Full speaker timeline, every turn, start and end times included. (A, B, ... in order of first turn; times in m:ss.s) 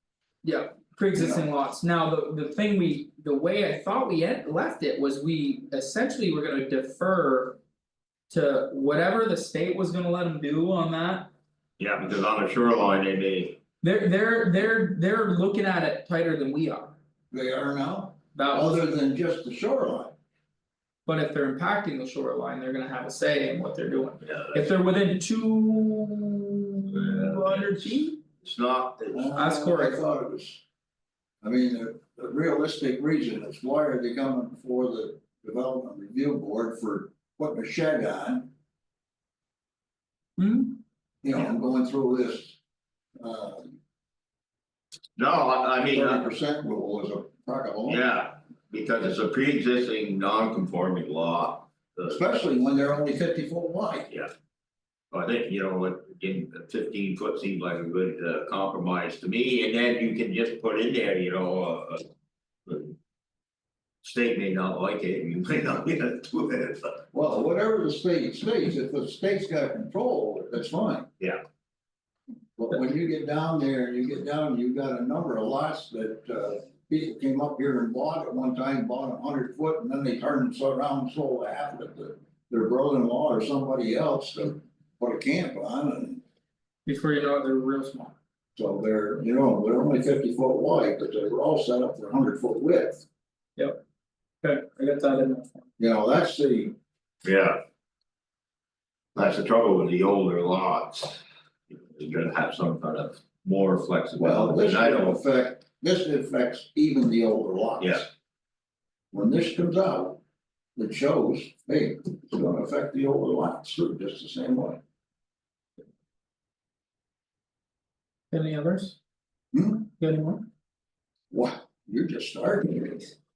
0:00.4-0:07.6 A
0:01.2-0:01.4 B
0:08.3-0:11.3 A
0:11.8-0:13.6 C
0:13.8-0:17.0 A
0:17.3-0:20.2 B
0:18.3-0:18.8 A
0:21.1-0:28.2 A
0:24.3-0:24.6 C
0:26.9-0:29.4 C
0:29.1-0:30.6 B
0:29.4-0:30.0 A
0:31.4-0:38.5 B
0:40.4-0:40.8 A
0:41.2-0:42.6 B
0:43.2-0:43.8 B
0:45.2-0:46.3 C
0:45.9-0:48.0 B
0:47.9-0:52.2 C
0:52.1-0:54.1 B
0:55.1-1:02.0 C
1:02.7-1:03.0 C
1:04.0-1:07.0 C
1:07.1-1:11.1 B
1:12.6-1:26.2 B
1:26.9-1:28.2 A
1:28.6-1:33.0 B
1:34.4-1:35.7 A
1:35.8-1:36.8 B
1:37.2-1:37.6 C
1:39.2-1:45.2 C
1:44.2-1:48.1 B
1:49.1-1:50.2 B
1:50.8-1:54.8 B
1:58.3-1:59.0 A
1:59.5-1:59.9 B
2:00.0-2:00.5 A
2:01.3-2:03.1 B